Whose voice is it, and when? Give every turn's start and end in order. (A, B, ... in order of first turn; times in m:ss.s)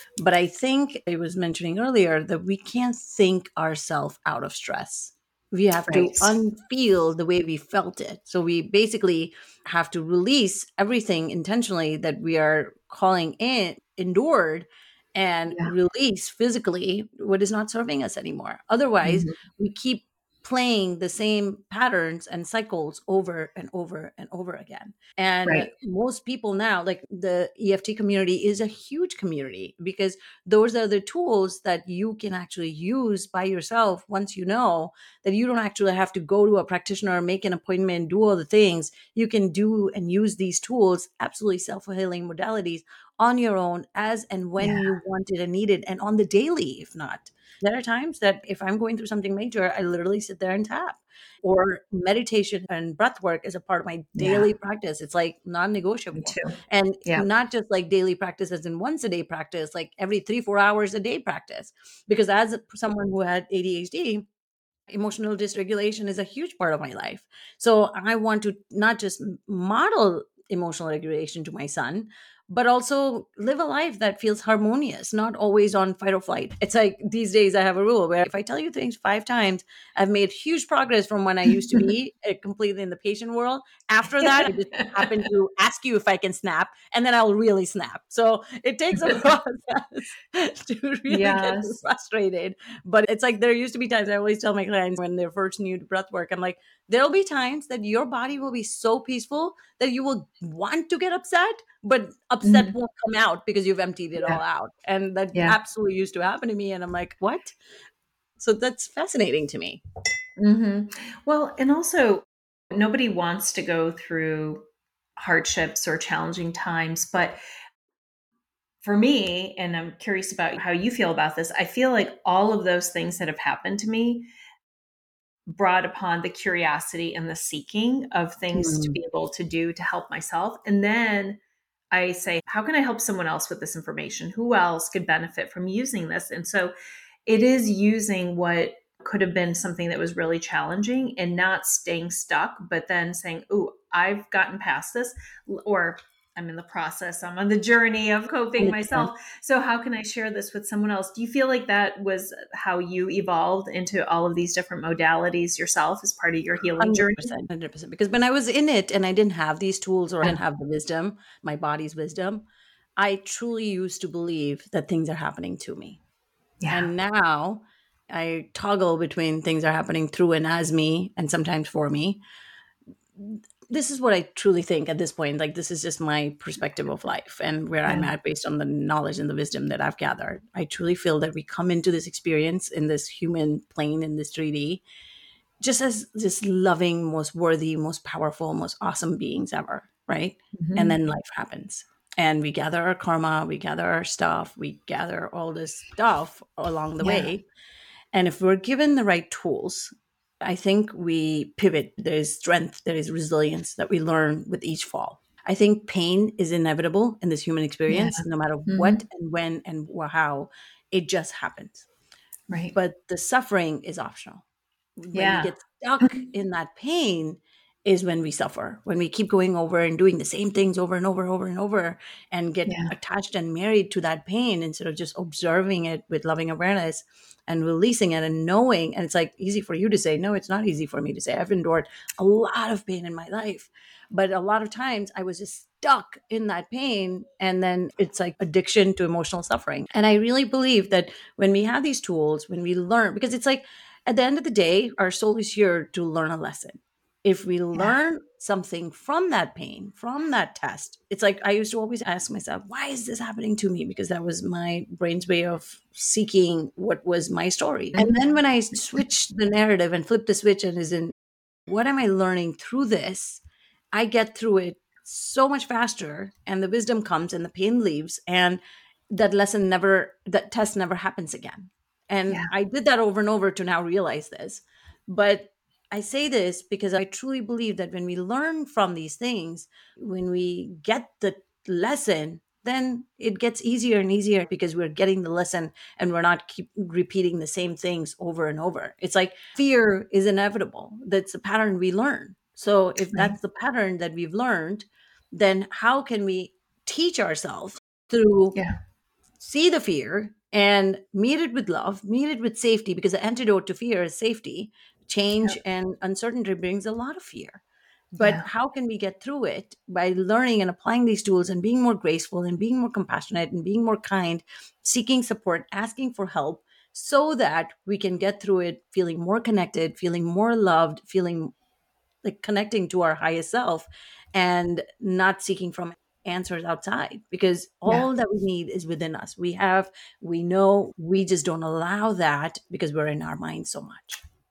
0:00.2-1:04.3 A
0:05.9-0:06.3 B
0:19.0-0:19.4 B
0:44.6-0:44.9 B
0:54.2-0:54.5 B
0:56.2-0:56.6 B
1:04.9-1:47.6 A
1:24.2-1:25.2 B
1:31.1-1:31.8 B
1:42.4-1:42.7 B
1:48.4-1:49.8 A
1:50.4-1:54.6 B
1:55.2-1:57.4 B
1:58.8-2:04.3 B
2:05.5-2:11.4 B
2:08.5-2:09.0 A
2:11.9-2:16.7 B
2:17.3-2:37.3 B
2:28.6-2:29.1 A
2:36.8-2:42.4 A
2:43.0-2:46.0 A
2:46.6-2:46.9 B
2:46.7-2:52.2 A
2:53.2-3:04.8 A
3:05.6-3:17.4 A
3:10.6-3:11.0 B
3:17.0-3:17.3 B
3:18.1-3:31.9 A
3:27.9-3:29.0 B
3:32.5-3:32.8 B
3:32.7-3:34.4 A
3:35.0-4:21.1 A
3:35.1-3:35.5 B
3:42.7-3:42.9 B
4:18.0-4:18.2 B
4:21.7-4:23.4 A
4:23.9-4:28.6 A
4:29.1-4:58.6 A
4:59.4-5:07.6 A
5:08.1-5:21.5 A
5:22.2-5:34.2 A